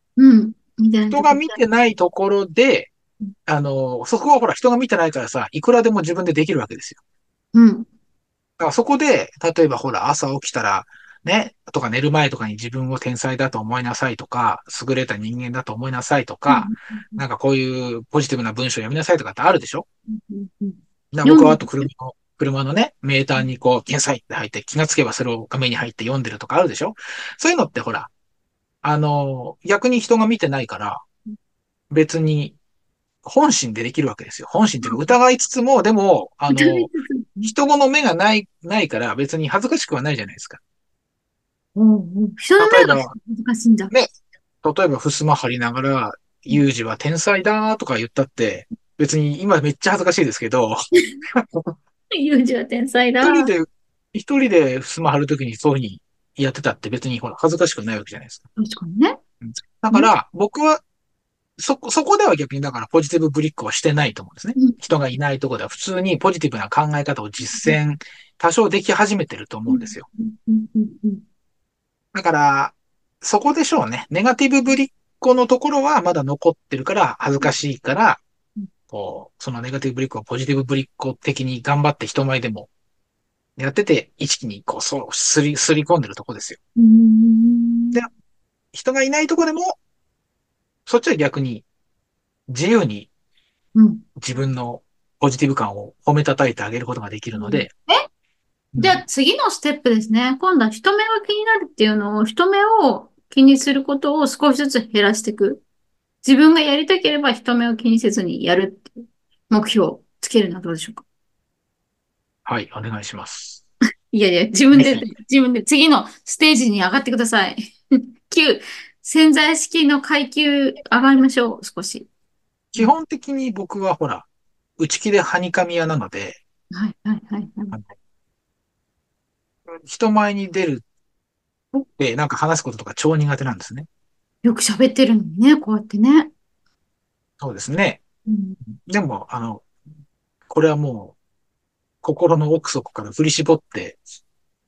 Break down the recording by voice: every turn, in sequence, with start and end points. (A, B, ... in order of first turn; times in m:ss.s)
0:00.2-0:01.6 A
0:01.1-0:02.9 B
0:03.5-0:07.0 B
0:07.5-0:07.9 A
0:08.6-0:19.9 B
0:16.5-0:17.2 A
0:20.1-0:21.9 A
0:21.1-0:28.1 B
0:28.8-0:31.0 B
0:31.9-0:32.6 B
0:33.2-0:36.9 B
0:34.8-0:35.2 A
0:36.5-0:37.5 A
0:37.4-0:40.6 B
0:41.8-0:43.9 A
0:42.6-0:43.2 B
0:44.6-0:50.8 B
0:51.3-0:51.8 B
0:52.1-0:53.5 A
0:53.2-0:58.4 B
0:58.6-0:59.2 A
0:59.4-1:00.8 B
1:01.6-1:10.1 B
1:07.4-1:07.8 A
1:09.7-1:11.2 A
1:12.1-1:18.2 B
1:18.9-1:22.7 B
1:23.6-1:26.6 B
1:26.8-1:28.0 A
1:28.7-1:29.8 B
1:30.9-1:31.6 B
1:32.5-1:33.1 B
1:33.8-1:34.0 A
1:34.2-1:37.7 B
1:37.3-1:38.0 A
1:38.7-1:39.0 B
1:38.8-1:45.6 A
1:46.2-1:49.0 A
1:49.5-1:51.0 A
1:52.5-1:53.6 B
1:54.1-1:57.7 A
1:54.7-1:55.0 B
1:58.3-2:02.1 A
2:02.7-2:04.3 B
2:04.8-2:06.4 B
2:06.7-2:07.8 A
2:09.7-2:10.8 B
2:11.7-2:13.9 B
2:14.4-2:16.3 A
2:17.4-2:18.0 B
2:18.3-2:18.6 A
2:18.8-2:19.6 B
2:20.5-2:21.2 B
2:22.0-2:24.0 B